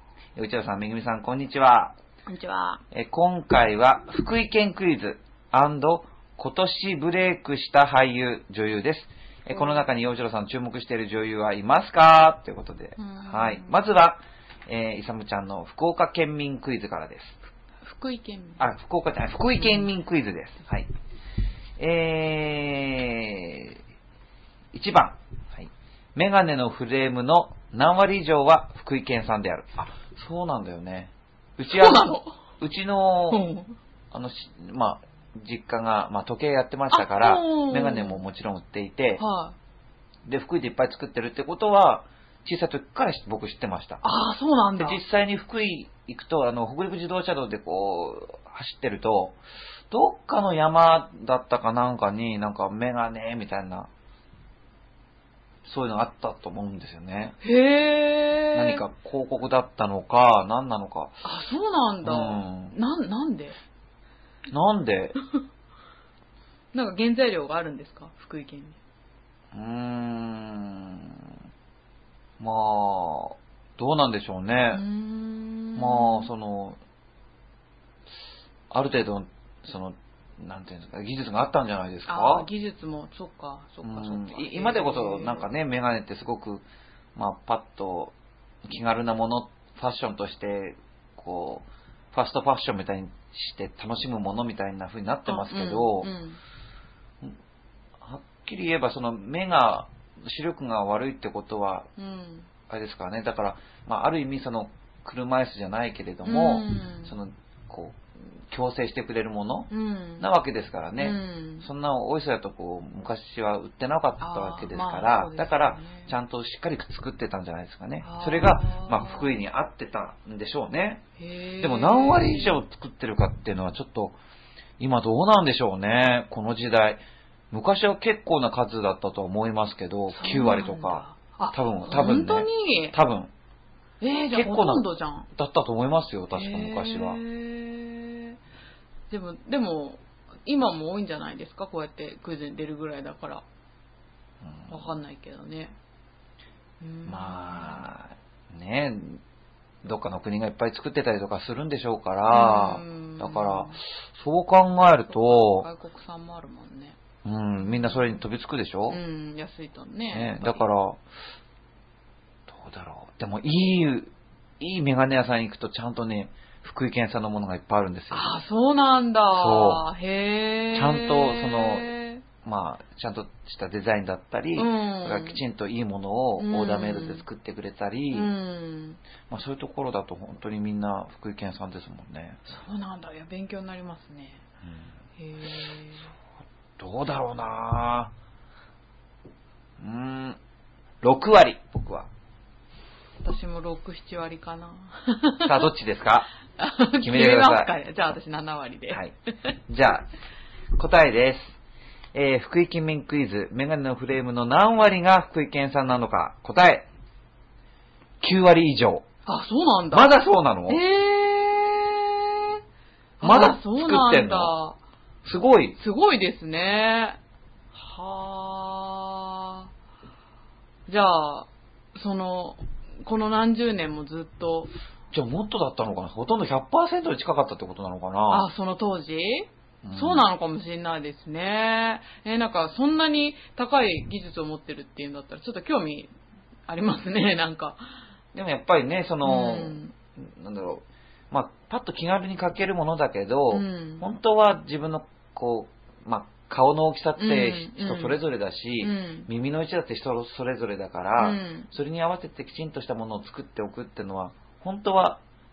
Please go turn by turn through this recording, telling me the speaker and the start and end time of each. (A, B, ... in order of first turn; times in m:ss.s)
0:00.4-0:02.0 A
0:02.3-0:02.8 B
0:02.9-0:17.4 A
0:09.5-0:09.8 B
0:13.0-0:13.7 B
0:17.8-0:18.6 B
0:18.6-0:20.9 A
0:19.6-0:19.9 B
0:21.8-0:23.8 A
0:24.7-0:32.1 A
0:31.6-0:32.4 B
0:32.6-0:33.4 A
0:33.3-0:33.8 B
0:34.1-0:39.2 A
0:36.9-0:38.2 B
0:39.2-0:39.6 B
0:40.3-0:44.0 A
0:44.0-0:45.0 B
0:44.8-0:49.4 A
0:49.9-0:53.9 A
0:55.6-0:57.4 A
0:57.4-0:58.8 B
0:58.5-1:01.2 A
1:01.2-1:03.6 B
1:02.0-1:02.8 A
1:04.5-1:05.2 A
1:06.7-1:08.8 B
1:09.5-1:11.2 A
1:12.4-1:14.8 A
1:14.7-1:16.3 B
1:15.8-1:16.8 A
1:18.7-1:22.5 A
1:22.1-1:25.5 B
1:23.8-1:28.1 A
1:28.6-1:36.1 A
1:35.3-1:36.4 B
1:38.0-1:41.9 A
1:42.0-1:42.5 B
1:42.7-2:01.0 A
1:46.2-1:47.1 B
1:49.7-1:50.3 B
1:51.0-1:51.7 B
1:54.2-1:56.1 B
1:58.0-1:59.4 B
2:01.2-2:02.6 B
2:01.6-2:04.2 A
2:04.8-2:13.3 A
2:10.1-2:13.0 B
2:14.0-2:15.3 B
2:14.3-2:17.2 A
2:16.3-2:18.4 B
2:19.1-2:23.4 B
2:24.4-2:24.7 A
2:24.7-2:25.8 B
2:26.8-2:27.9 B
2:27.1-2:29.2 A
2:29.8-2:35.7 A
2:32.3-2:33.8 B
2:35.1-2:37.0 B
2:37.2-2:39.0 A
2:37.6-2:38.2 B
2:38.9-2:40.7 B
2:40.1-2:41.0 A
2:42.5-2:48.4 A
2:48.1-2:52.2 B
2:49.3-2:49.8 A
2:50.7-2:51.9 A
2:52.4-2:58.3 A
2:54.6-2:55.4 B
2:56.4-2:57.2 B
2:58.1-2:59.0 B
2:59.3-3:02.4 A
3:02.5-3:04.4 B
3:05.2-3:06.1 B
3:06.8-3:08.1 A
3:09.8-3:10.4 A
3:11.0-3:12.1 A
3:13.2-3:15.6 B
3:15.4-3:16.3 A
3:16.6-3:19.5 B
3:17.0-3:17.7 A
3:19.7-3:20.1 A
3:20.8-3:21.6 A
3:22.1-3:26.9 A
3:28.2-3:29.1 A
3:29.3-3:30.1 B
3:29.9-3:30.8 A
3:30.7-3:32.6 B
3:33.2-3:34.8 B
3:33.2-3:34.5 A
3:35.2-3:35.8 A
3:35.8-3:37.2 B
3:37.7-3:39.7 B
3:40.9-3:44.7 B
3:45.1-3:48.5 A
3:48.3-3:56.1 B
3:49.8-3:50.3 A
3:56.7-3:58.0 B
3:58.3-4:15.2 A
3:59.2-3:59.9 B
4:03.5-4:04.1 B
4:07.2-4:08.2 B
4:08.8-4:09.3 B
4:11.2-4:11.7 B